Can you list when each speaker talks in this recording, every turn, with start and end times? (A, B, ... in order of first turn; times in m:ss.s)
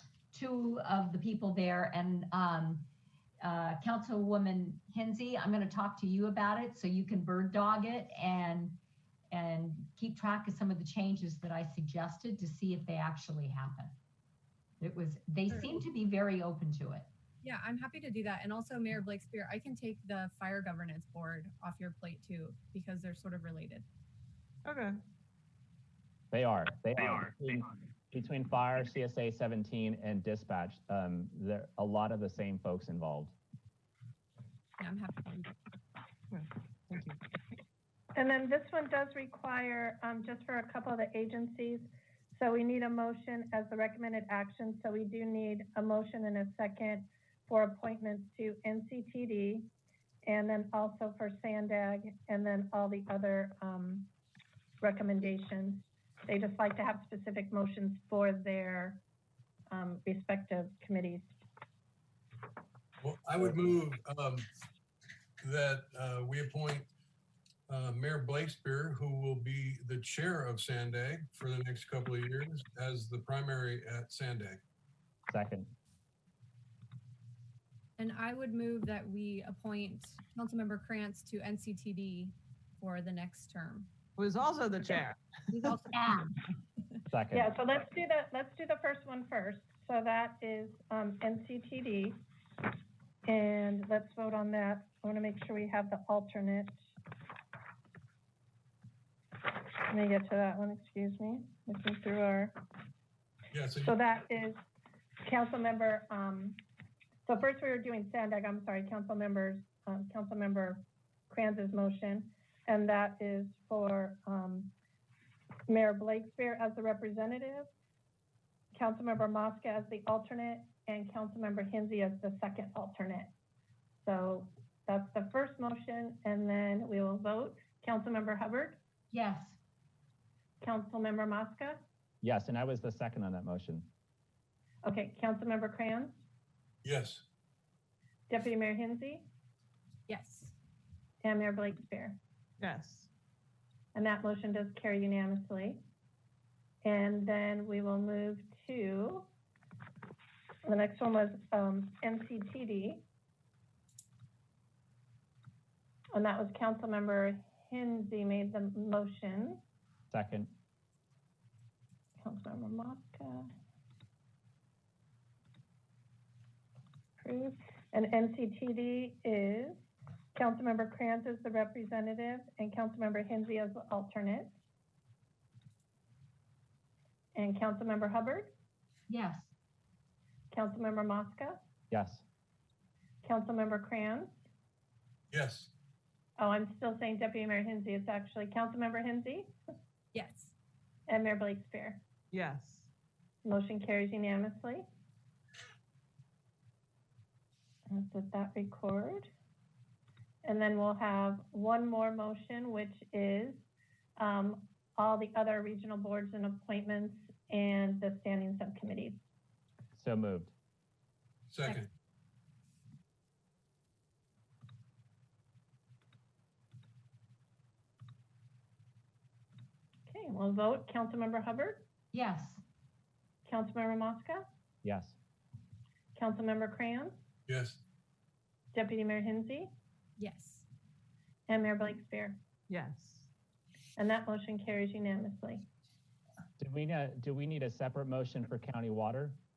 0:00.3-0:02.9 A
0:03.4-0:08.8 A
0:09.3-0:13.9 A
0:14.8-0:17.1 A
0:17.4-0:23.8 B
0:24.6-0:25.0 C
0:26.3-0:33.4 D
0:34.8-0:35.5 B
0:36.3-0:37.2 C
0:38.1-0:49.7 E
0:50.2-0:54.1 E
0:54.8-0:59.0 E
0:59.7-1:01.3 E
1:03.0-1:04.5 F
1:05.4-1:06.9 F
1:07.7-1:14.6 F
1:15.3-1:15.7 D
1:18.0-1:23.9 B
1:24.2-1:25.8 C
1:25.5-1:26.2 B
1:25.9-1:26.3 A
1:27.1-1:27.5 D
1:27.3-1:32.2 E
1:33.2-1:36.7 E
1:39.5-1:42.5 E
1:43.5-1:44.0 F
1:43.8-1:44.6 E
1:45.2-1:46.6 E
1:47.2-1:54.7 E
1:55.7-1:57.7 E
1:58.7-2:03.3 E
2:04.0-2:08.8 E
2:09.1-2:09.6 A
2:10.6-2:11.8 E
2:12.2-2:13.9 D
2:14.8-2:16.2 E
2:16.8-2:17.2 F
2:18.3-2:19.3 E
2:20.1-2:20.5 B
2:21.2-2:22.2 E
2:22.6-2:23.1 C
2:23.9-2:25.8 E
2:26.8-2:29.3 E
2:30.6-2:33.0 E
2:36.1-2:39.6 E
2:40.1-2:40.5 D
2:42.2-2:43.5 E
2:47.2-2:49.8 E
2:50.3-2:54.5 E
2:57.3-2:58.5 E
2:59.1-2:59.5 A
3:00.5-3:01.6 E
3:01.9-3:02.2 D
3:03.2-3:04.4 E
3:05.3-3:05.7 F
3:06.4-3:09.5 E
3:10.1-3:10.5 B
3:11.1-3:12.0 E
3:12.3-3:12.9 C
3:13.4-3:14.8 E
3:17.9-3:19.3 E
3:20.4-3:23.6 E
3:24.2-3:29.2 E
3:29.9-3:30.5 D
3:31.5-3:31.9 F
3:40.1-3:41.9 E
3:42.1-3:42.6 A
3:43.4-3:44.4 E
3:44.8-3:45.2 D
3:46.1-3:47.2 E
3:47.5-3:47.8 F
3:48.7-3:49.7 E
3:50.2-3:50.6 B
3:51.5-3:52.4 E
3:52.7-3:53.3 C
3:54.0-3:55.6 E
3:56.6-3:59.4 D